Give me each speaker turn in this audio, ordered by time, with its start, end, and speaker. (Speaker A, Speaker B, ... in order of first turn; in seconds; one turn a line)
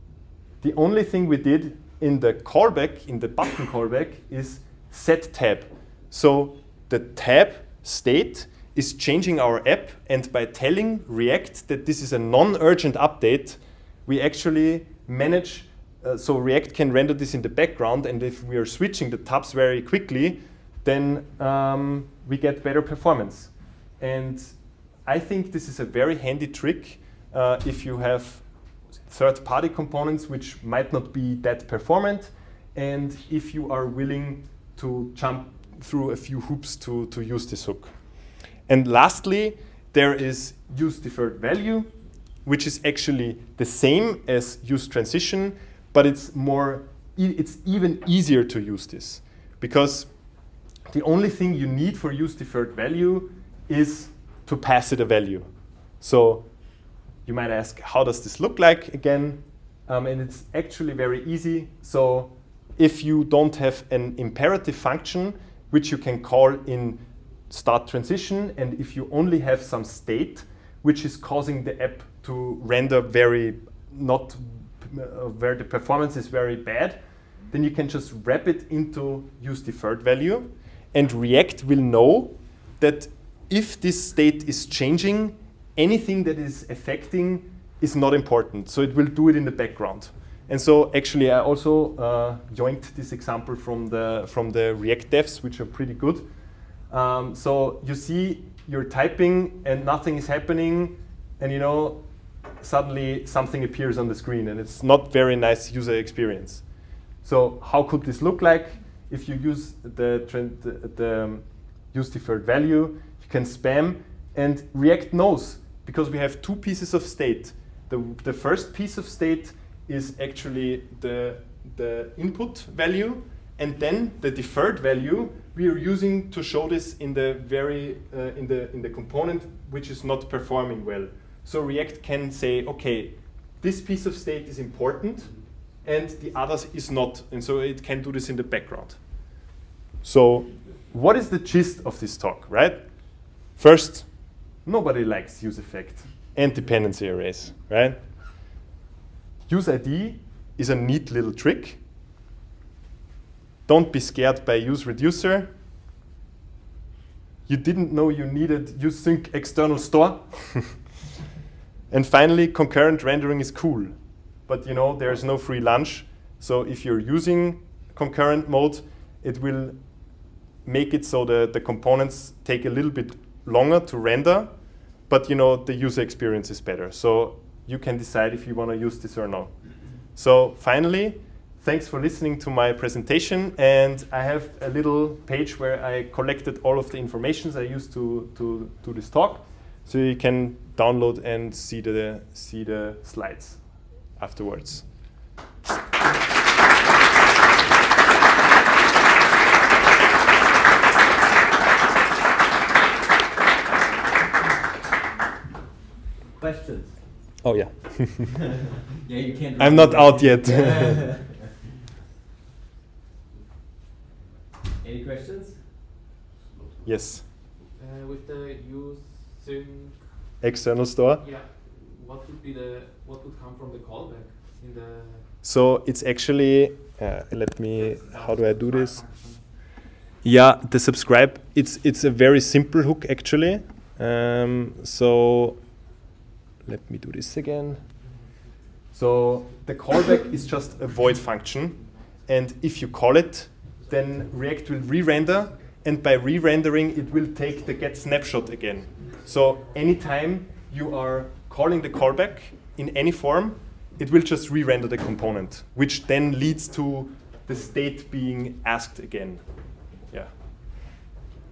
Speaker A: 0.6-28.4
Speaker A: 29.0-38.1
Speaker A: 38.7-41.9
Speaker A: 42.4-50.1
Speaker A: 50.9-55.5
Speaker A: 56.0-56.5
Speaker A: 57.2-77.0
Speaker A: 77.5-96.3
Speaker A: 96.9-102.0
Speaker A: 102.5-106.7
Speaker A: 107.2-139.2
Speaker A: 140.0-148.0
Speaker A: 149.5-151.8
Speaker A: 153.7-155.5
Speaker A: 157.5-160.9
Speaker A: 161.9-163.9
Speaker A: 164.4-169.8
Speaker A: 170.6-193.6
Speaker A: 194.2-194.9
Speaker B: 206.3-207.4
Speaker A: 207.4-208.4
Speaker B: 208.9-211.5
Speaker A: 209.6-211.1
Speaker B: 214.8-216.8
Speaker A: 216.8-217.2
Speaker C: 217.8-220.3
Speaker A: 220.4-221.2
Speaker C: 221.2-225.3
Speaker A: 225.4-229.0
Speaker C: 227.7-229.4
Speaker A: 230.2-235.6
Speaker A: 236.6-237.8
Speaker A: 238.9-259.4
Speaker C: 241.7-242.1
Speaker C: 243.8-244.1
Speaker A: 260.1-260.3